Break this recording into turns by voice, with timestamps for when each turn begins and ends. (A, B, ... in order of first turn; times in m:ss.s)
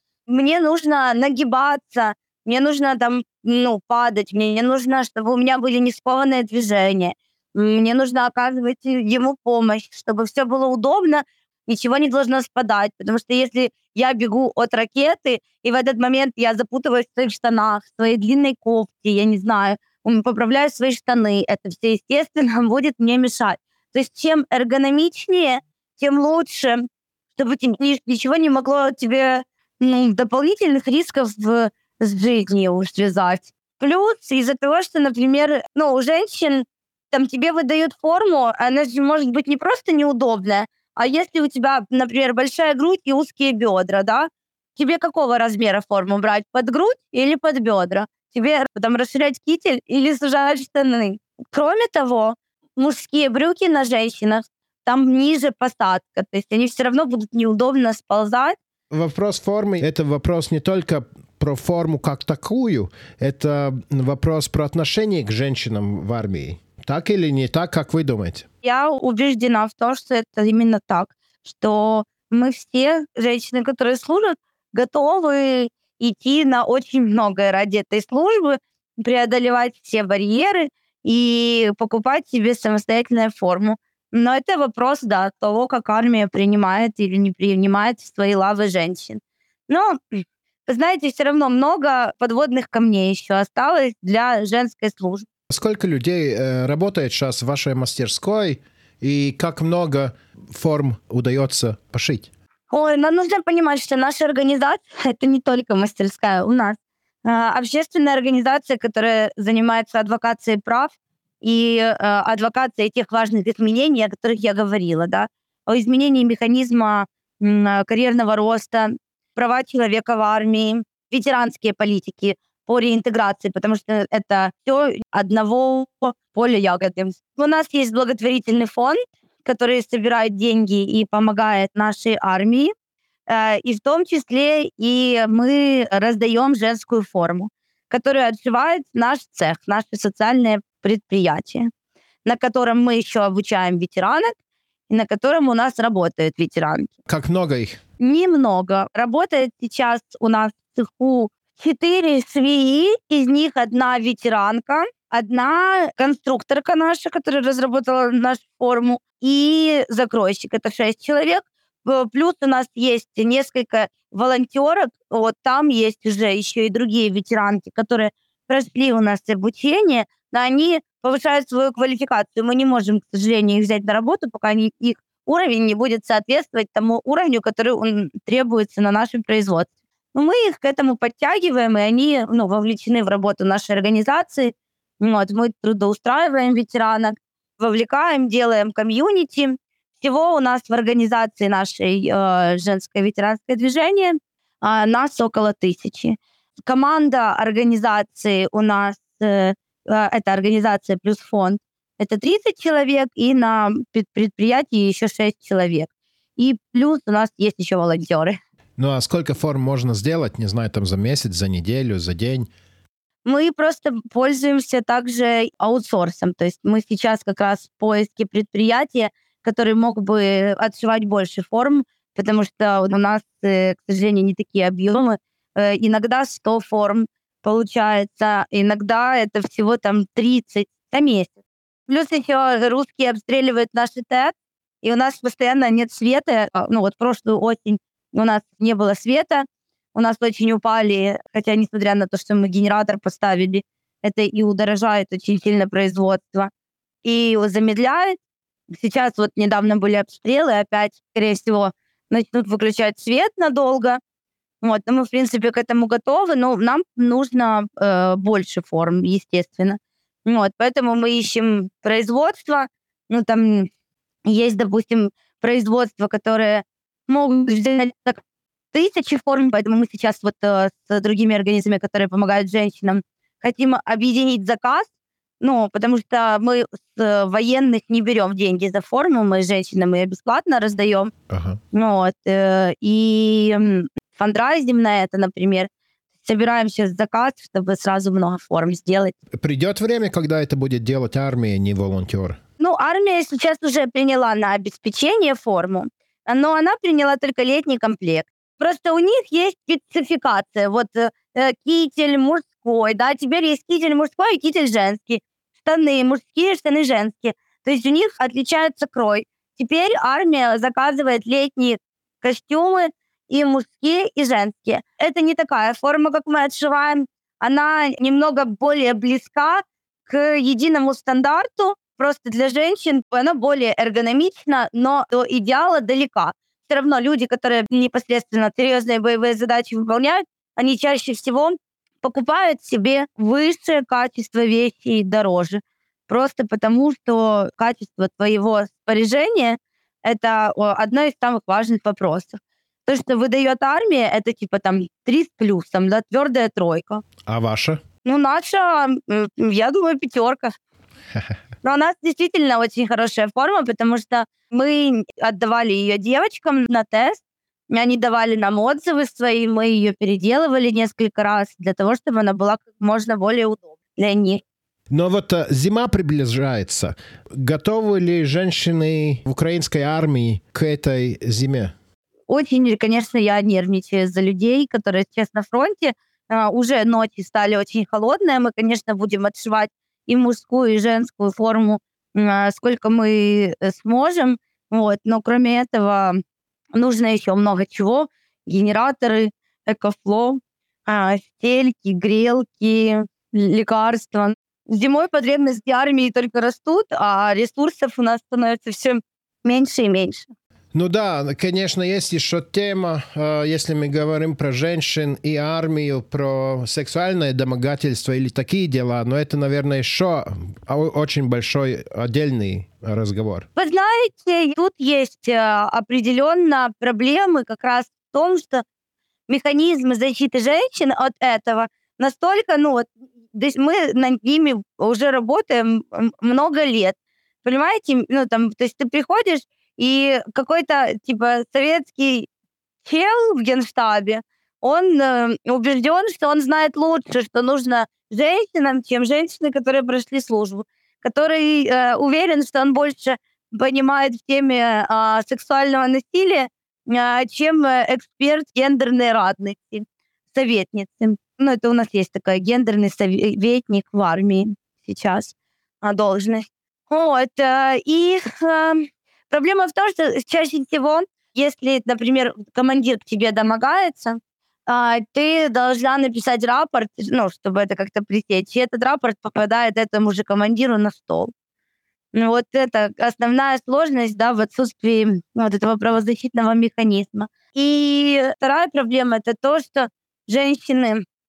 0:00.3-0:58.6 A
0:58.9-1:08.4 B
1:08.6-1:35.2 A
1:35.5-1:42.3 B
1:42.7-2:12.7 A
2:13.3-2:21.7 A
2:22.2-2:24.3 A
2:24.9-2:26.9 A
2:27.1-2:27.8 B
2:28.0-3:28.4 A
3:28.8-3:32.5 B
3:33.2-3:51.3 A
3:51.9-4:06.5 A
4:07.0-4:08.2 A
4:08.7-4:14.0 A
4:14.6-4:23.7 A
4:24.2-4:28.2 A
4:28.7-4:34.9 A
4:35.4-4:41.1 A
4:41.3-4:41.6 B
4:41.7-4:45.7 A
4:46.2-4:49.2 A
4:49.3-4:52.4 B
4:52.6-5:47.0 A
5:47.2-5:47.8 B
5:48.0-5:50.5 A
5:51.6-6:04.4 A
6:04.9-6:11.7 B
6:12.3-6:26.2 A
6:26.7-6:40.3 A
6:40.7-6:53.5 B
6:53.6-6:58.6 A
6:59.3-7:12.3 A
7:12.8-7:51.3 A
7:52.1-8:01.0 A